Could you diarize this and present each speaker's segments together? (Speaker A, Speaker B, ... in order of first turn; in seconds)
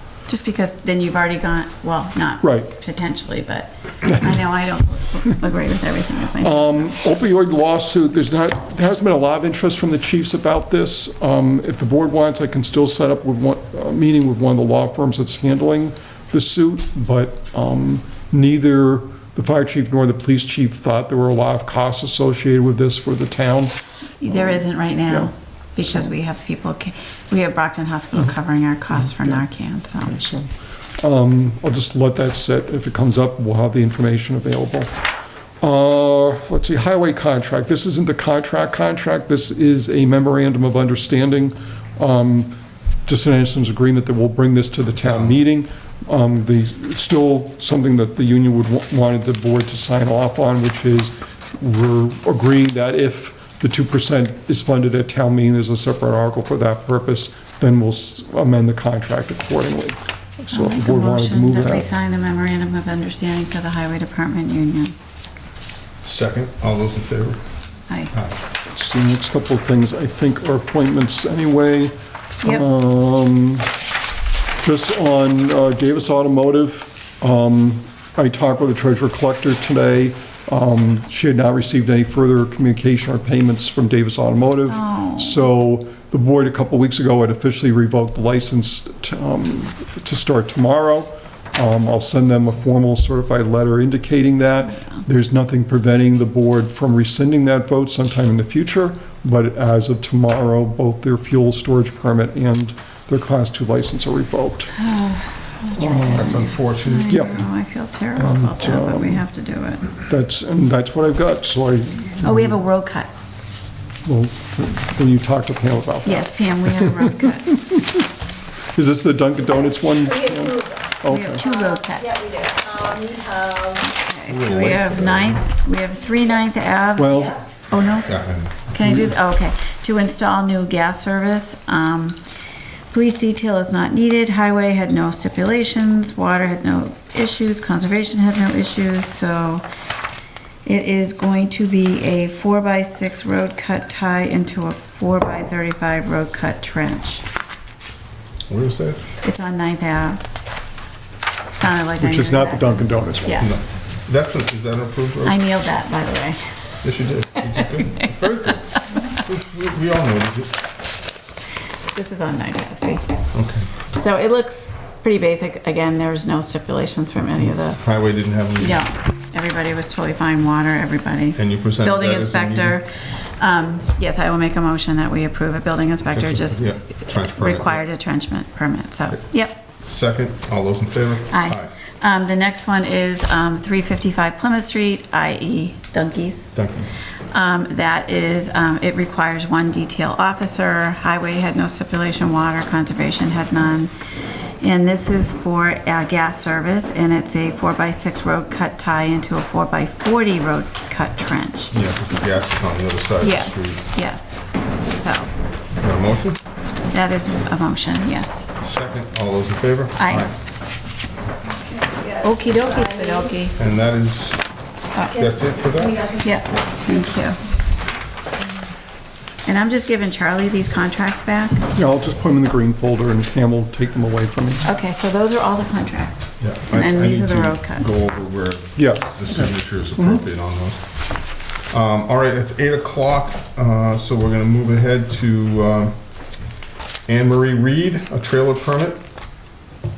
Speaker A: 0.3-6.9, 24.2-30.2, 60.5-64.9, 84.7-85.4, 104.8-109.9, 112.2-113.1, 116.0-117.5, 121.1-122.2, 123.8-128.1, 128.7-132.2, 132.9-139.6, 140.6-147.2, 149.2-150.2, 151.5-153.5, 155.2-156.4, 157.8-158.5, 161.8-163.0, 163.9-167.8, 168.6-179.6, 181.3-186.5, 187.3-193.9, 194.6-201.7, 203.2-205.3, 206.9-208.5, 210.0-210.3, 212.2-213.5, 216.2-217.4, 219.4-221.7, 224.6-228.0
Speaker B: 2.4-2.7, 6.4-23.7, 24.3-25.3, 29.0-29.4, 30.0-35.0, 35.6-61.9, 68.7-73.7, 74.6-104.7, 105.7-106.5, 107.1-107.4, 108.2-109.2, 110.1-112.6, 114.0-118.1, 118.7-121.4, 127.0-127.4, 152.0-153.5, 221.7-224.7, 228.8-230.2
Speaker C: 45.0-45.3, 66.0-67.4, 106.2-107.3, 124.2-125.4, 128.0-128.6, 148.5-149.0, 153.4-155.4, 156.8-160.6, 163.3-163.7, 167.8-168.8, 171.3-172.8, 176.1-177.8, 179.8-181.7, 186.5-187.0, 201.7-203.8, 205.8-206.4, 208.6-210.3, 213.6-214.5, 215.0-216.0, 226.4-230.8, 231.7-235.9, 237.1-239.0
Speaker D: 120.1-120.7, 121.4-123.9, 211.6-213.5, 215.2-216.4